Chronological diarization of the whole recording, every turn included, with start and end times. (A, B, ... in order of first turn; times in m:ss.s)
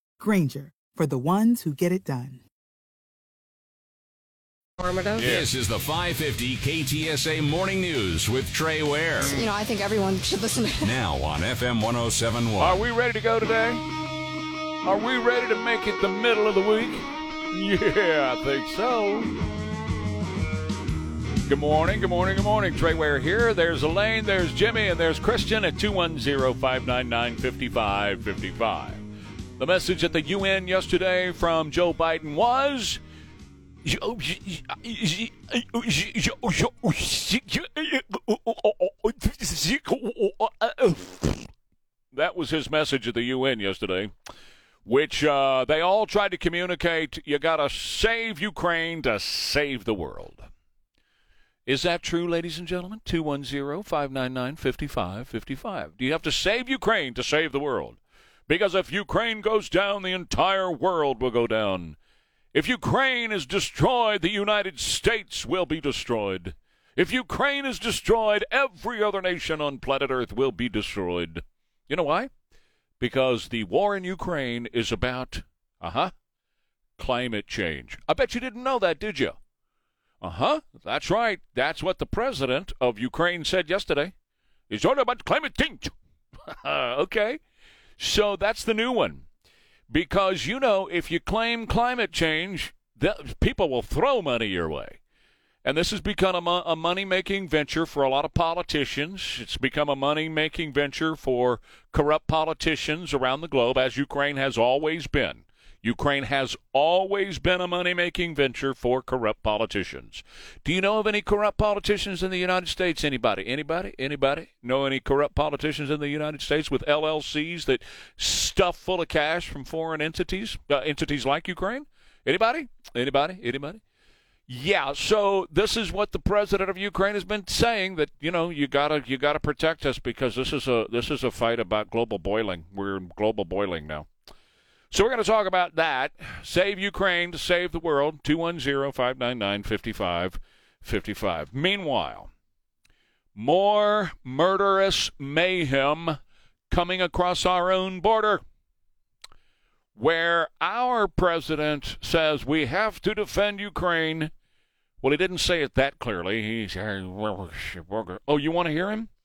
0:00.2-0:02.4 A
0:04.8-0:05.3 B
0:05.2-0:09.4 C
0:05.2-0:05.5 D
0:09.2-0:11.0 B
0:10.8-0:12.8 C
0:12.6-0:13.8 D
0:14.8-0:19.3 D
0:21.5-0:29.0 D
0:29.6-0:33.0 D
0:33.8-0:41.5 D
0:42.1-0:44.1 D
0:44.8-0:50.5 D
0:51.6-1:02.0 D
1:02.5-1:12.3 D
1:13.0-1:16.1 D
1:17.0-1:19.4 D
1:20.2-1:24.1 D
1:24.7-1:25.9 D
1:26.5-1:27.4 D
1:28.0-1:29.2 D
1:29.9-1:35.0 D
1:35.6-2:03.8 D
2:04.5-2:14.1 D
2:14.9-2:22.3 D
2:23.3-2:26.2 D
2:26.7-2:28.4 D
2:30.0-2:34.3 D
2:35.0-2:39.1 D